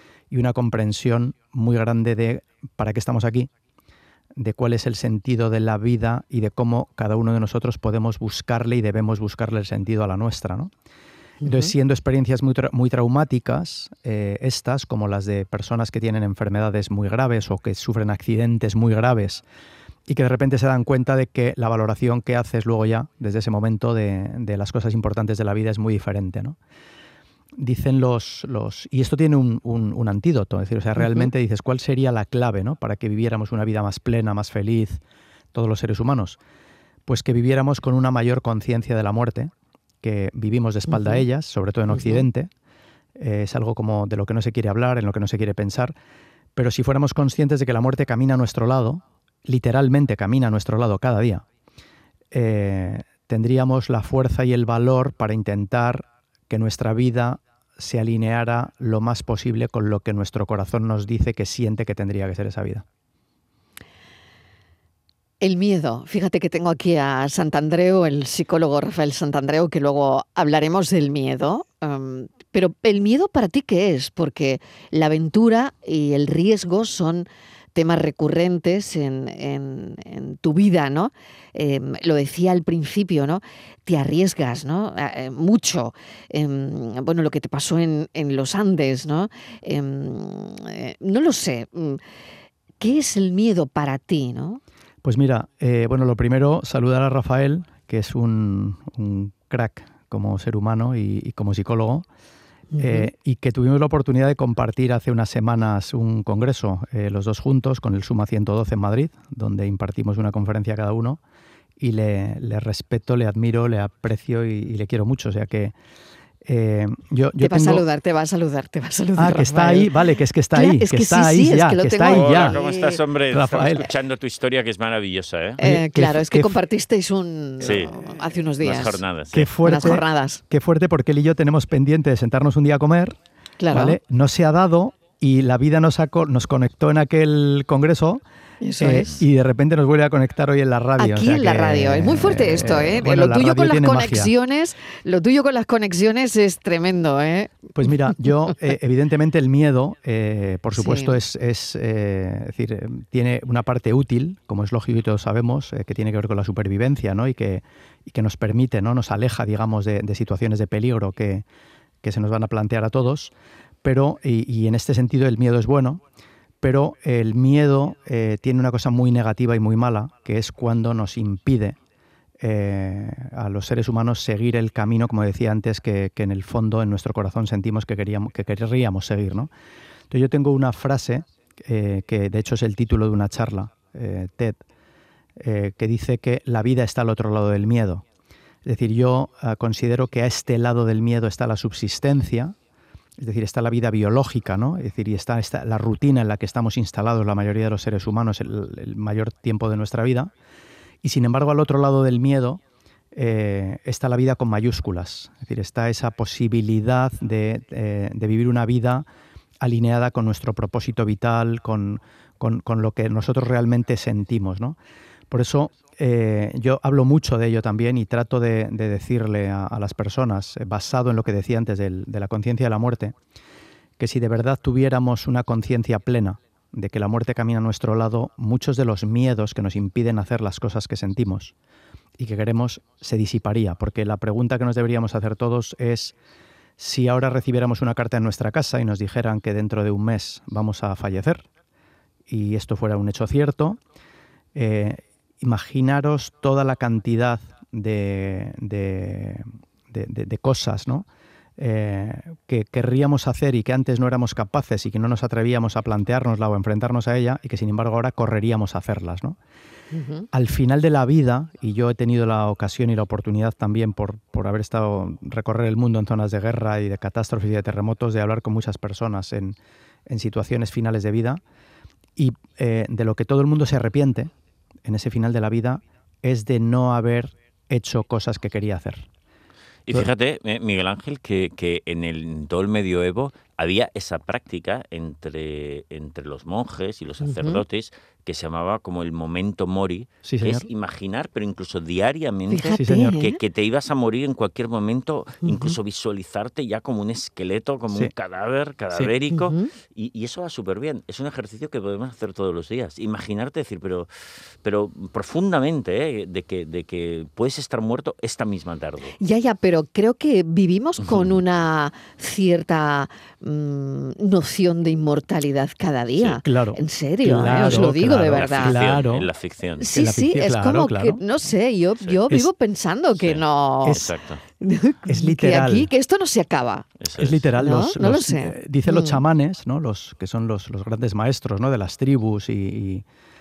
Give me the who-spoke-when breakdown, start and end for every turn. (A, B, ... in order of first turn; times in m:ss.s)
0:00.3-0:03.5 A
0:04.4-0:10.7 A
0:11.4-0:11.7 B
0:11.4-0:19.4 A
0:20.1-0:26.6 A
0:27.6-0:35.0 A
0:35.5-0:36.4 A
0:37.1-0:42.5 A
0:40.9-0:41.2 B
0:43.2-0:46.0 A
0:46.6-0:51.4 A
0:52.3-1:02.8 A
1:05.4-1:32.0 B
1:32.8-1:34.6 B
1:35.0-1:42.1 A
1:42.7-1:43.1 B
1:42.8-1:51.2 A
1:51.8-1:55.7 A
1:56.4-1:57.8 A
1:57.4-1:59.9 B
1:59.2-2:02.6 A
2:00.5-2:03.0 B
2:02.0-2:05.6 C
2:03.3-2:03.9 A
2:05.6-2:09.0 B
2:05.6-2:06.6 A
2:07.6-2:08.0 C
2:08.6-2:09.5 C
2:09.3-2:13.2 A
2:09.6-2:10.4 B
2:13.6-2:14.0 B
2:13.7-2:18.2 A
2:18.6-2:19.2 B
2:18.8-2:24.3 A
2:21.0-2:27.9 B
2:27.8-2:41.4 A
2:30.8-2:31.2 B
2:42.0-2:43.3 A
2:43.8-2:46.0 A
2:46.6-2:51.8 A
2:52.4-2:59.5 A
3:00.1-3:04.6 A
3:05.4-3:08.0 A
3:08.6-3:12.6 A
3:13.2-3:20.3 A
3:21.0-3:22.6 A
3:23.1-3:29.1 A
3:29.6-3:34.8 A
3:35.3-3:43.2 A
3:44.0-3:51.5 A
3:52.2-3:56.1 A
3:56.8-4:01.4 A
4:02.3-4:03.8 A
4:04.6-4:11.1 A
4:11.6-4:19.4 A
4:19.9-4:20.3 B
4:20.3-4:31.4 A
4:32.2-4:34.3 A
4:34.8-4:39.1 A
4:39.9-5:04.1 C
4:47.2-4:47.6 B
4:50.2-4:50.7 A
4:52.5-4:53.4 B
4:52.8-4:53.2 A
4:55.4-4:55.8 B
4:59.3-4:59.7 B
5:04.6-5:09.2 C
5:09.2-5:18.8 B
5:16.4-5:19.3 A
5:17.4-5:19.9 C
5:19.8-5:24.1 B
5:19.9-5:21.2 A
5:23.2-5:24.4 C
5:24.6-5:26.9 B
5:25.1-5:25.9 A
5:27.0-5:27.5 C
5:27.2-5:33.0 A
5:27.6-5:29.2 B